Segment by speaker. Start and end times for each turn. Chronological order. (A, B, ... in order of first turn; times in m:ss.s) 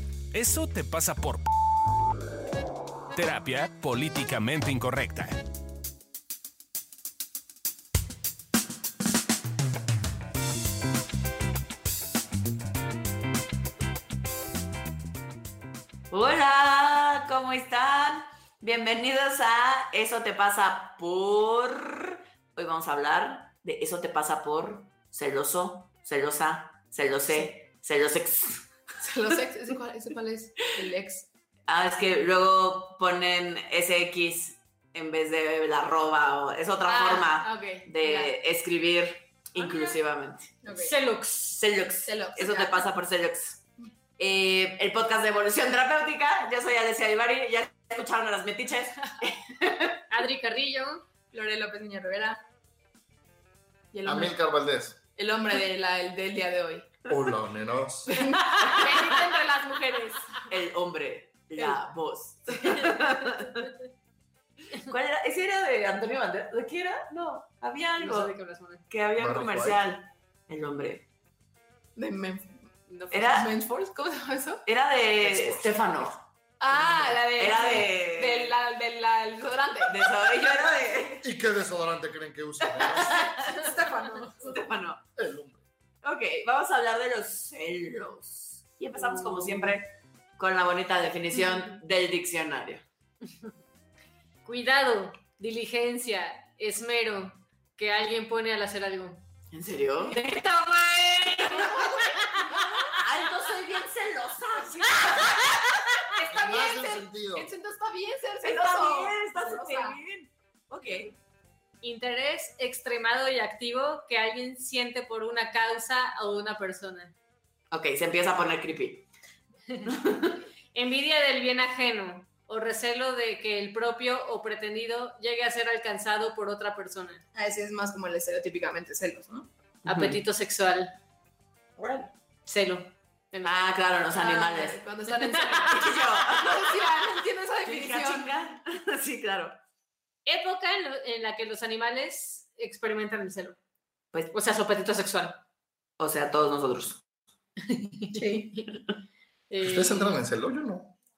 0:00.3-0:01.5 A
0:03.1-0:05.5 A
0:16.1-0:28.6 B
0:29.0-0:31.3 C
0:31.7-0:40.6 B
0:36.9-0:38.3 C
0:40.6-0:40.9 C
0:40.7-0:41.6 D
0:41.6-0:43.6 B
0:42.1-0:42.9 C
0:44.2-0:50.0 B
0:50.1-0:51.0 D
0:51.3-0:52.4 C
0:53.9-0:54.4 C
0:54.0-0:55.0 E
0:55.2-0:57.0 C
0:57.1-0:58.1 E
0:58.1-1:00.4 C
1:00.5-1:03.7 B
1:02.5-1:02.9 C
1:04.8-1:08.3 B
1:08.0-1:08.8 D
1:08.9-1:11.0 B
1:09.2-1:09.8 E
1:12.0-1:14.6 C
1:13.1-1:13.5 B
1:14.7-1:16.2 B
1:15.2-1:15.7 E
1:16.6-1:20.4 C
1:16.8-1:18.6 B
1:19.9-1:21.3 B
1:21.2-1:23.4 E
1:22.7-1:23.8 B
1:23.1-1:24.6 C
1:24.4-1:25.0 B
1:25.2-1:25.6 E
1:26.0-1:32.8 B
1:34.4-1:39.2 D
1:39.5-1:40.2 B
1:40.1-1:42.9 D
1:41.4-1:43.0 C
1:42.9-1:45.6 B
1:44.7-1:45.1 C
1:45.0-1:46.0 D
1:46.2-1:50.0 C
1:46.3-1:47.5 E
1:48.4-1:51.1 B
1:51.8-1:57.1 D
1:57.7-1:59.1 B
1:59.8-2:00.4 B
2:00.7-2:07.2 D
2:07.4-2:09.5 C
2:09.9-2:10.2 B
2:09.9-2:10.9 D
2:11.8-2:12.1 B
2:12.5-2:13.6 D
2:13.4-2:14.8 B
2:14.1-2:18.3 C
2:15.2-2:15.9 D
2:15.7-2:16.7 B
2:17.7-2:19.6 B
2:20.3-2:23.6 D
2:24.3-2:25.4 D
2:26.0-2:27.0 B
2:27.7-2:28.7 D
2:28.1-2:28.5 C
2:29.5-2:30.2 D
2:29.6-2:30.9 E